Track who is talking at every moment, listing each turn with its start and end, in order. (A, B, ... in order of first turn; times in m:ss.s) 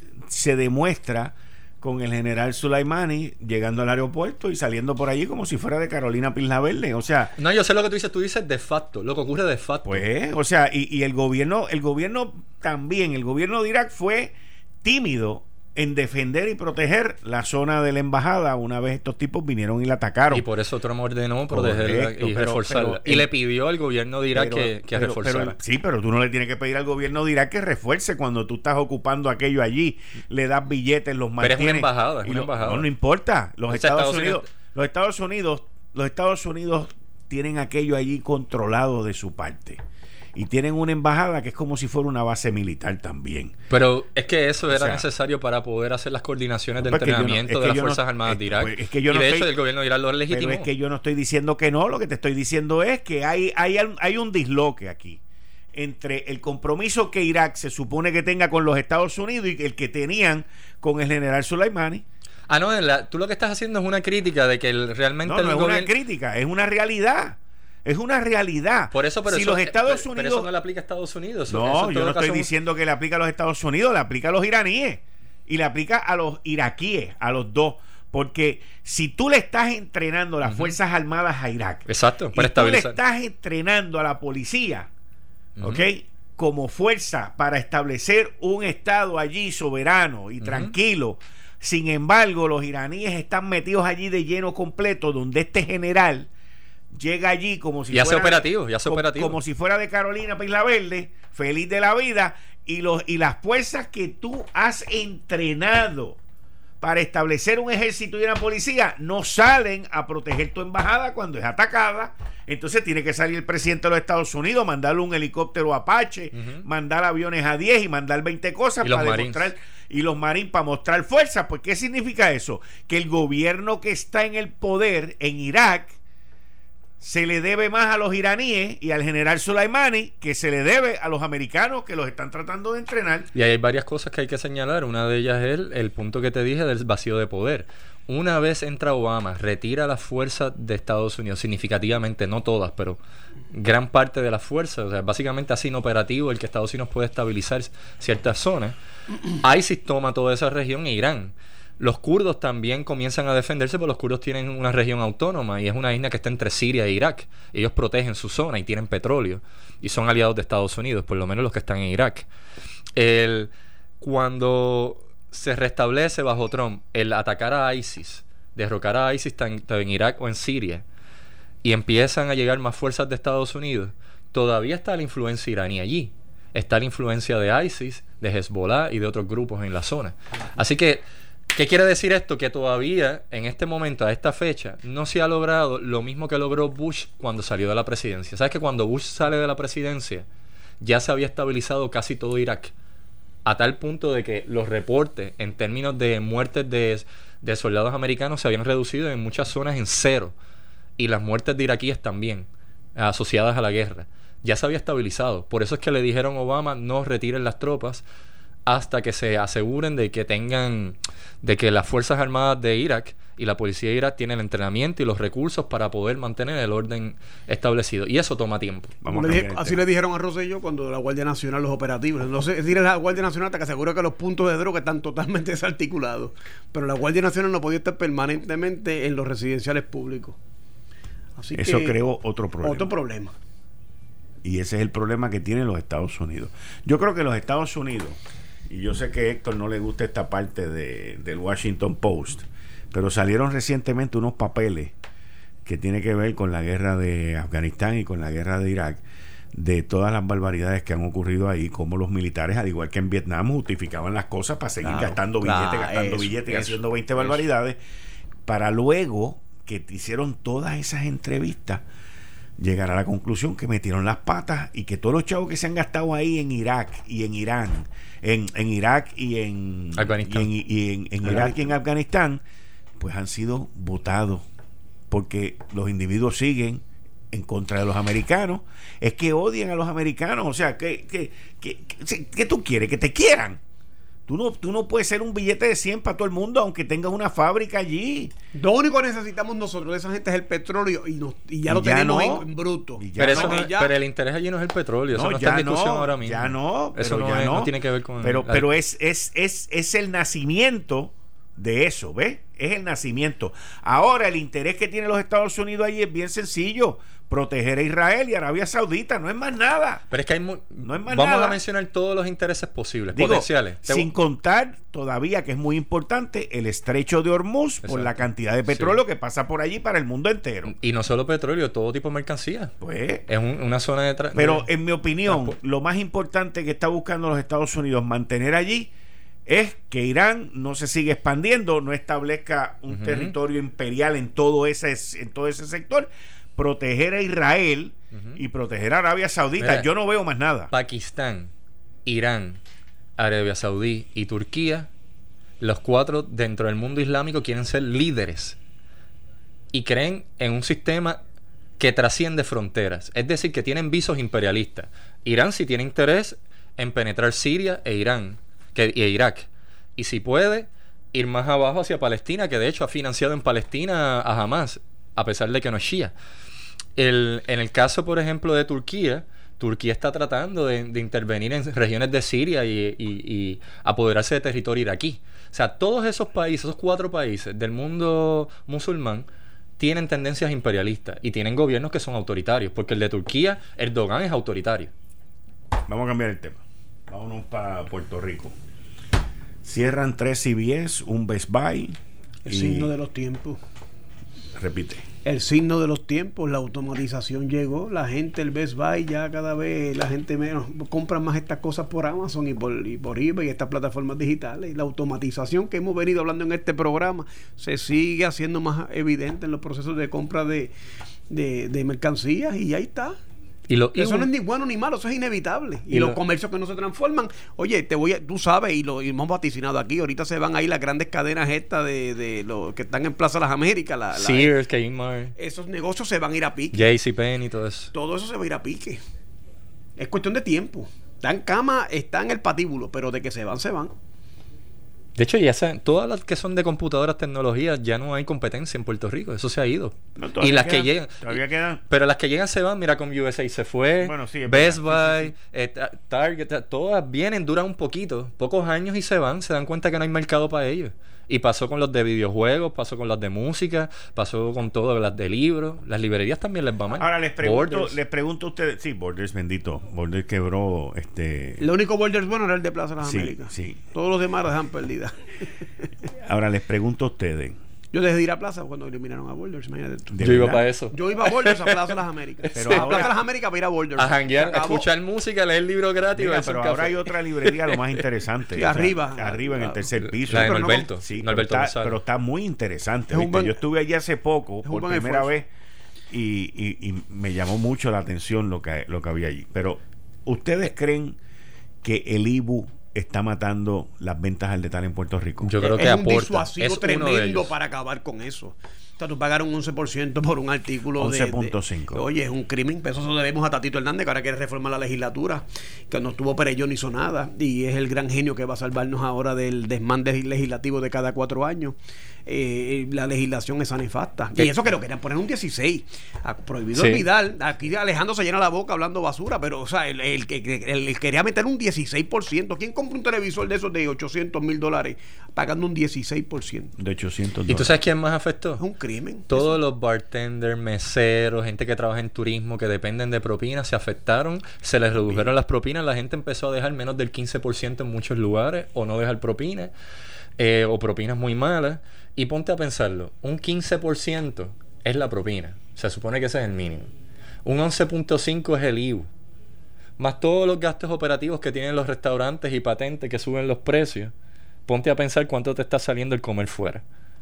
0:00.3-0:07.3 A
0:07.4-0:10.0 B
0:09.8-0:20.5 A
0:20.3-0:25.6 B
0:21.5-0:23.3 A
0:24.3-0:39.8 A
0:31.4-0:32.9 B
0:33.7-0:34.4 B
0:40.3-0:43.6 A
0:43.7-0:50.7 B
0:44.7-0:45.0 A
0:46.8-0:49.5 A
0:50.3-0:55.2 A
0:55.7-1:02.0 A
1:02.5-1:05.9 B
1:05.2-1:10.5 A
1:08.9-1:12.5 B
1:11.5-1:24.9 A
1:20.4-1:20.8 B
1:21.9-1:23.0 B
1:25.6-1:25.8 B
1:25.6-1:36.3 A
1:30.4-1:30.7 B
1:36.9-1:46.2 A
1:37.9-1:39.4 B
1:46.8-2:06.0 A
1:56.3-1:56.6 B
1:58.8-1:59.5 B
2:07.0-2:13.3 A
2:13.3-2:23.0 B
2:23.5-2:28.8 B
2:29.4-2:42.3 B
2:43.0-2:50.8 B
2:51.6-3:10.2 B
3:10.8-3:12.7 B
3:13.4-3:20.3 B
3:21.0-3:28.0 B
3:28.6-3:39.0 B
3:39.0-3:39.8 A
3:39.1-3:50.4 C
3:51.4-3:52.0 C
3:51.5-3:52.9 A
3:52.6-3:53.3 C
3:54.4-4:04.9 A
4:05.6-4:09.0 A
4:09.5-4:17.8 A
4:14.8-4:17.4 C
4:18.4-4:21.8 A
4:22.6-4:32.4 A
4:30.0-4:30.5 B
4:31.2-4:31.7 C
4:33.0-4:34.4 A
4:35.1-4:43.6 A
4:44.3-4:48.3 A
4:48.5-4:53.9 C
4:51.7-4:53.6 A
4:53.2-4:58.7 B
4:55.1-5:10.0 A
5:10.1-5:14.1 B
5:10.8-5:11.6 A
5:13.1-5:20.7 A
5:17.8-5:18.2 B
5:18.7-5:19.0 B
5:20.6-5:22.7 B
5:22.8-5:23.2 A
5:23.3-5:24.6 B
5:24.3-5:28.9 A
5:25.3-5:25.5 B
5:29.5-5:40.7 A
5:32.9-5:33.3 B
5:38.1-5:38.4 B
5:39.6-5:39.9 B
5:40.7-5:41.5 B
5:42.0-5:42.6 B
5:43.2-5:44.9 B
5:45.6-5:48.6 B
5:49.7-5:51.2 B
5:51.8-6:06.1 B
6:07.0-6:19.3 B
6:19.8-6:24.9 B
6:25.9-6:28.5 A
6:29.6-6:32.9 A
6:32.4-6:33.6 C
6:34.6-6:35.0 A
6:35.2-6:50.7 C
6:51.3-6:53.2 C
6:53.7-6:54.3 B
6:53.9-7:04.6 C
6:55.9-6:56.2 B
7:04.1-7:05.3 B
7:05.4-7:06.9 C
7:06.7-7:07.9 B
7:07.9-7:09.0 C
7:10.0-7:13.9 C
7:15.2-7:38.0 B
7:20.2-7:21.8 A
7:24.0-7:25.3 A
7:36.9-7:41.7 A
7:41.6-7:45.4 C
7:43.0-7:43.8 A
7:46.2-7:47.6 A
7:47.9-7:50.2 C
7:50.1-7:50.6 A
7:50.2-7:51.9 B
7:50.9-7:54.9 C
7:52.4-7:53.1 B
7:52.5-7:53.1 A
7:54.0-7:58.0 B
7:56.2-8:05.5 A
7:58.5-8:00.9 C
8:00.2-8:02.0 B
8:03.1-8:03.6 C
8:04.6-8:05.3 C
8:06.1-8:11.2 A
8:11.8-8:15.6 A
8:15.4-8:17.5 B
8:15.6-8:46.7 C
8:21.0-8:22.1 A
8:36.7-8:37.0 B
8:46.8-8:47.7 A
8:47.5-8:48.6 B
8:48.6-8:49.5 C
8:49.3-8:59.7 B
9:00.4-9:06.9 B
9:07.4-9:09.1 B
9:10.0-9:14.1 B
9:14.7-9:16.8 B